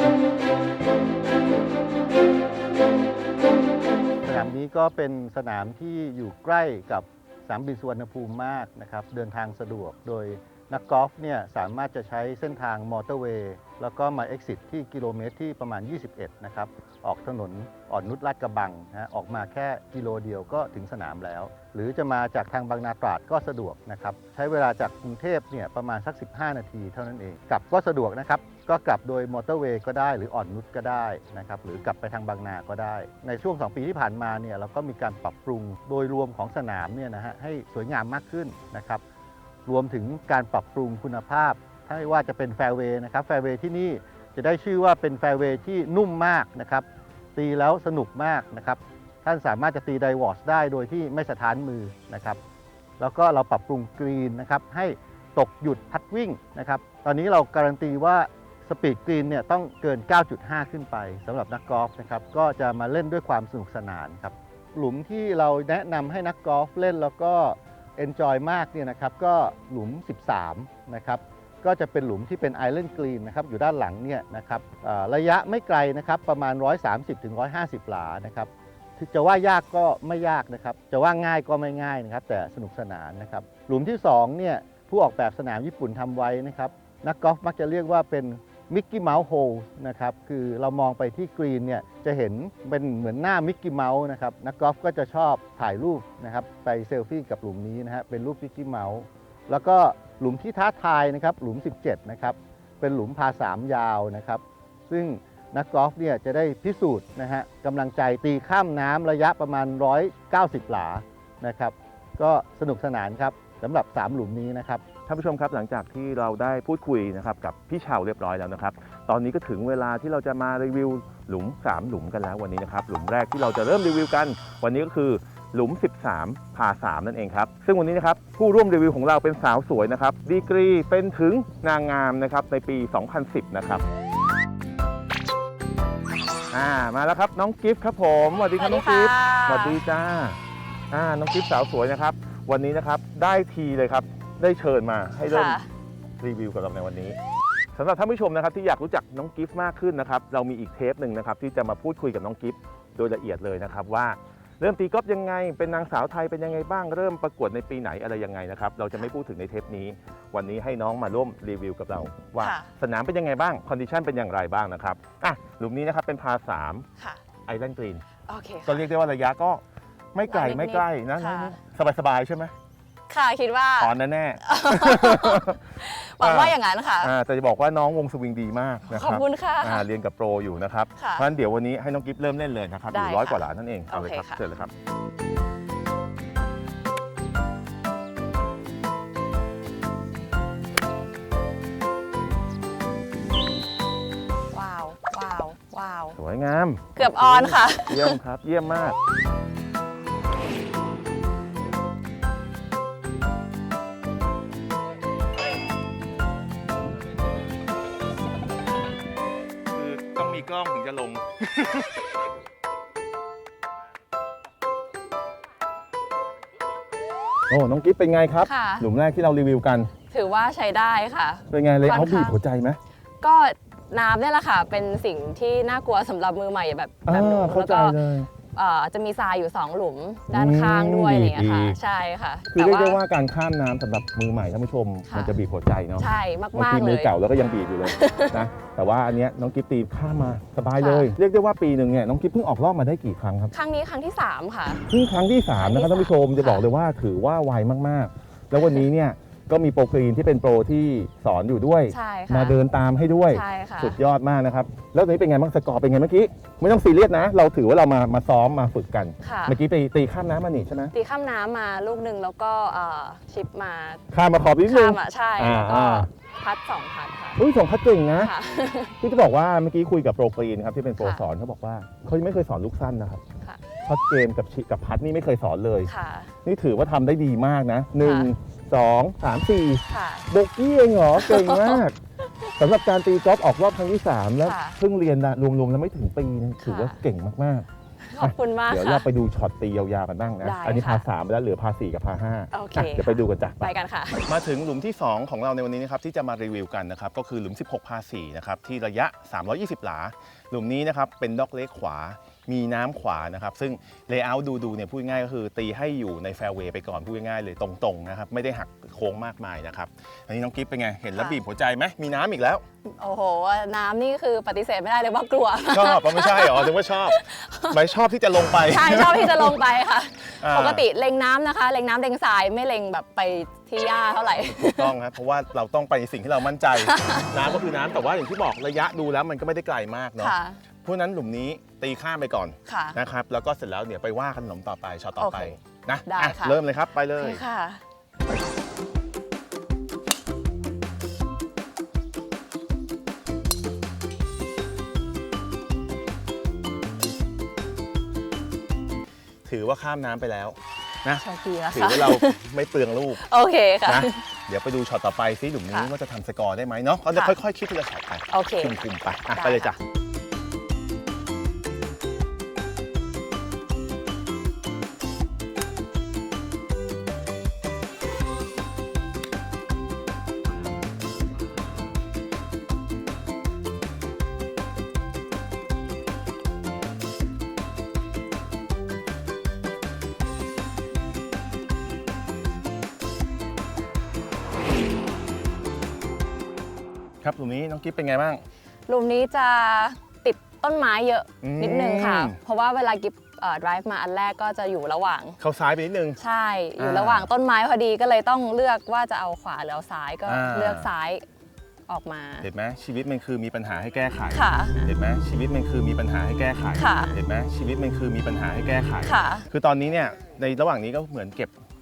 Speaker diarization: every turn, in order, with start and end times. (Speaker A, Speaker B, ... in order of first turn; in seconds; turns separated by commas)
Speaker A: 4.2-39.0, Speaker A: 39.7-52.4, Speaker A: 53.0-114.9, Speaker B: 115.0-133.8, Speaker B: 136.5-140.4, Speaker C: 138.5-139.8, Speaker B: 140.9-145.6, Speaker C: 145.2-145.7, Speaker B: 146.2-147.2, Speaker B: 147.7-166.8, Speaker C: 162.4-162.7, Speaker C: 167.0-167.2, Speaker B: 167.4-168.0, Speaker C: 168.1-168.9, Speaker B: 168.7-169.6, Speaker B: 170.1-172.5, Speaker C: 170.3-171.6, Speaker C: 173.1-177.1, Speaker B: 173.8-175.6, Speaker B: 176.2-184.7, Speaker C: 178.9-179.9, Speaker C: 180.9-181.3, Speaker C: 182.9-184.4, Speaker C: 194.5-196.2, Speaker B: 196.2-199.0, Speaker C: 196.9-198.2, Speaker B: 209.7-212.0, Speaker B: 217.5-219.9, Speaker C: 218.4-218.9, Speaker C: 219.9-222.4, Speaker B: 221.5-222.8, Speaker C: 223.2-233.0, Speaker B: 227.0-228.3, Speaker B: 230.3-231.8, Speaker B: 232.5-243.5, Speaker C: 235.1-235.4, Speaker C: 236.0-237.1, Speaker C: 237.8-238.5, Speaker C: 240.8-241.1, Speaker C: 243.5-244.8, Speaker B: 244.9-260.9, Speaker C: 245.5-246.7, Speaker C: 251.9-252.6, Speaker C: 253.3-254.0, Speaker C: 259.2-259.6, Speaker C: 260.9-264.0, Speaker B: 264.1-266.1, Speaker C: 264.6-267.4, Speaker B: 267.4-268.3, Speaker C: 268.2-268.9, Speaker B: 269.0-273.2, Speaker C: 271.0-271.3, Speaker B: 273.8-275.9, Speaker C: 275.9-276.3, Speaker B: 276.4-281.9, Speaker C: 278.0-278.3, Speaker C: 279.9-280.3, Speaker C: 281.1-281.8, Speaker B: 282.6-287.7, Speaker C: 284.4-284.8, Speaker C: 286.6-287.0, Speaker C: 288.0-289.1, Speaker B: 288.2-312.6, Speaker C: 290.4-291.1, Speaker C: 292.5-294.2, Speaker C: 311.1-311.4, Speaker C: 312.8-317.8, Speaker B: 315.7-317.2, Speaker B: 317.7-319.6, Speaker C: 318.5-325.0, Speaker B: 320.4-320.9, Speaker B: 324.5-337.4, Speaker C: 326.8-327.3, Speaker C: 330.2-330.6, Speaker C: 332.6-333.0, Speaker C: 335.1-337.8, Speaker B: 349.4-353.2, Speaker C: 351.2-352.4, Speaker C: 353.1-354.2, Speaker B: 353.9-359.8, Speaker C: 358.3-358.8, Speaker C: 359.3-359.8, Speaker B: 387.2-388.4, Speaker C: 388.9-395.4, Speaker B: 391.4-392.4, Speaker B: 395.4-396.2, Speaker C: 396.2-401.2, Speaker B: 396.8-397.3, Speaker B: 400.2-400.9, Speaker C: 401.9-402.5, Speaker B: 402.4-411.6, Speaker C: 404.3-404.9, Speaker C: 406.7-407.2, Speaker C: 409.0-409.5